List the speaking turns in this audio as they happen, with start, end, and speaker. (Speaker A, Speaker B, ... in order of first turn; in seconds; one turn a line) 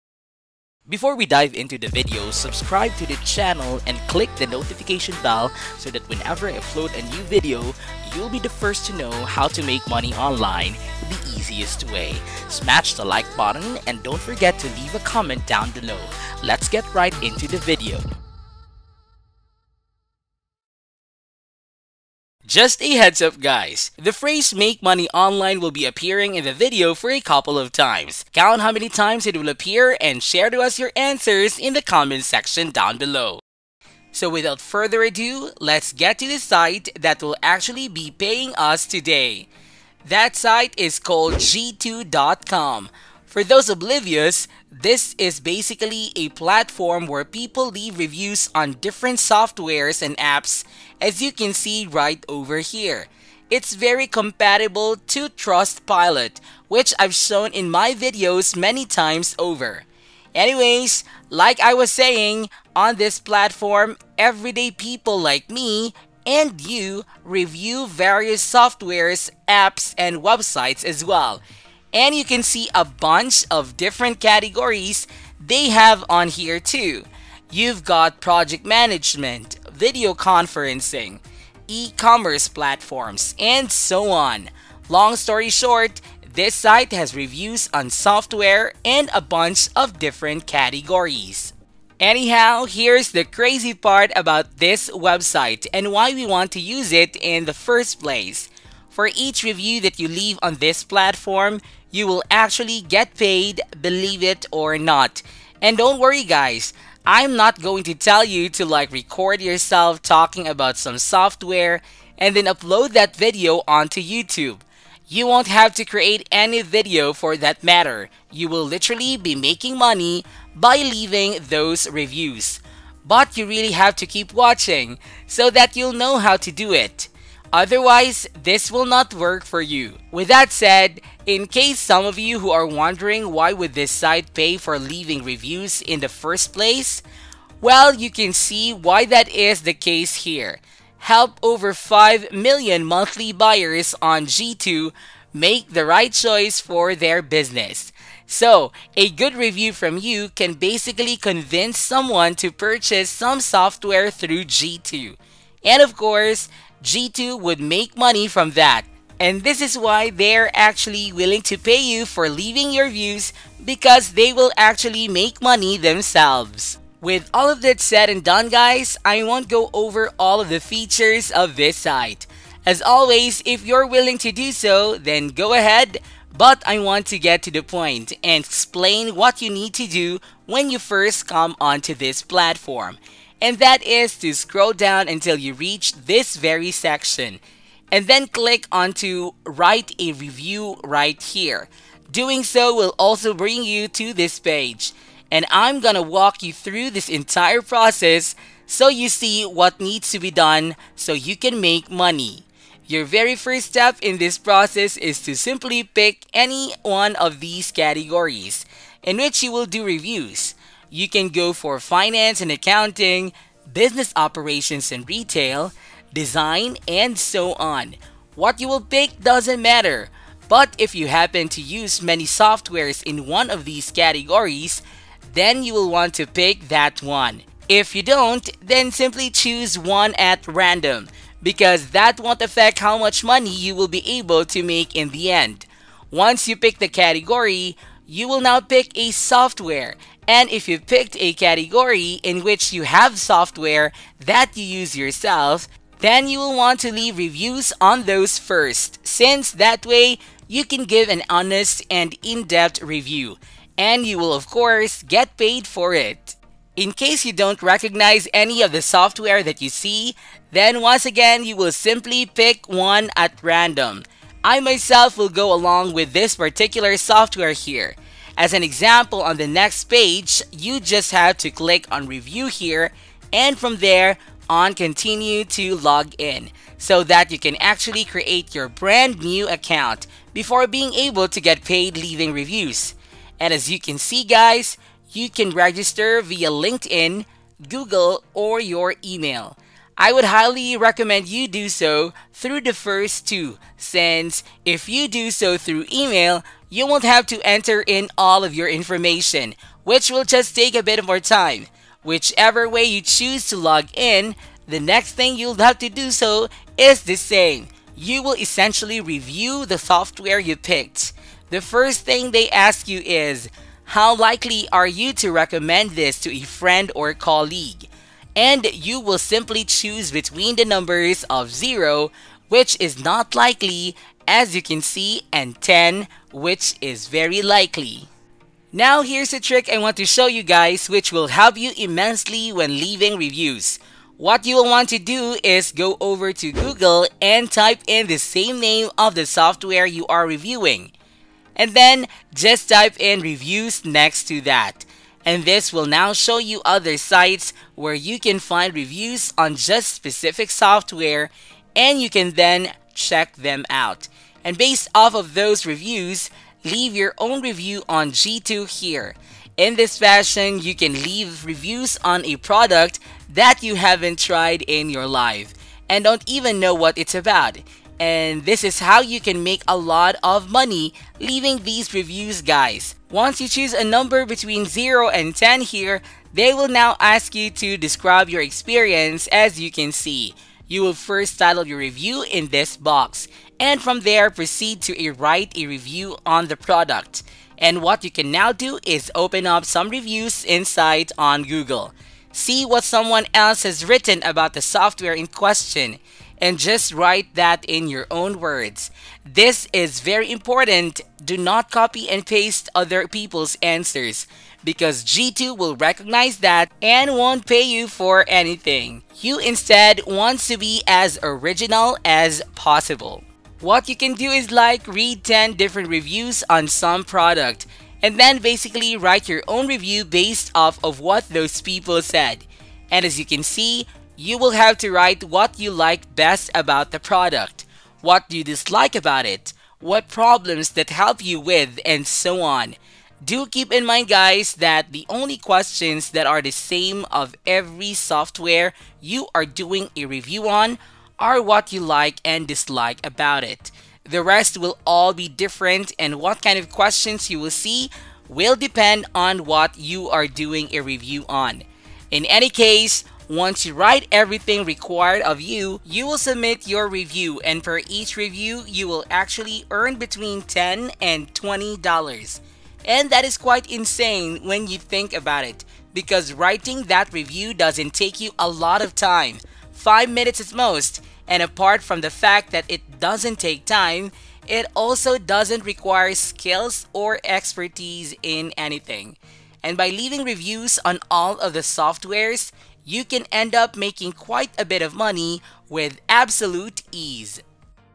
Speaker A: 0.9-18.0
Speaker A: 22.4-33.4
Speaker A: 34.1-39.5
Speaker A: 40.0-71.4
Speaker A: 71.9-137.0
Speaker A: 137.6-187.4
Speaker A: 187.9-328.1
Speaker A: 328.7-340.9
Speaker A: 341.6-487.4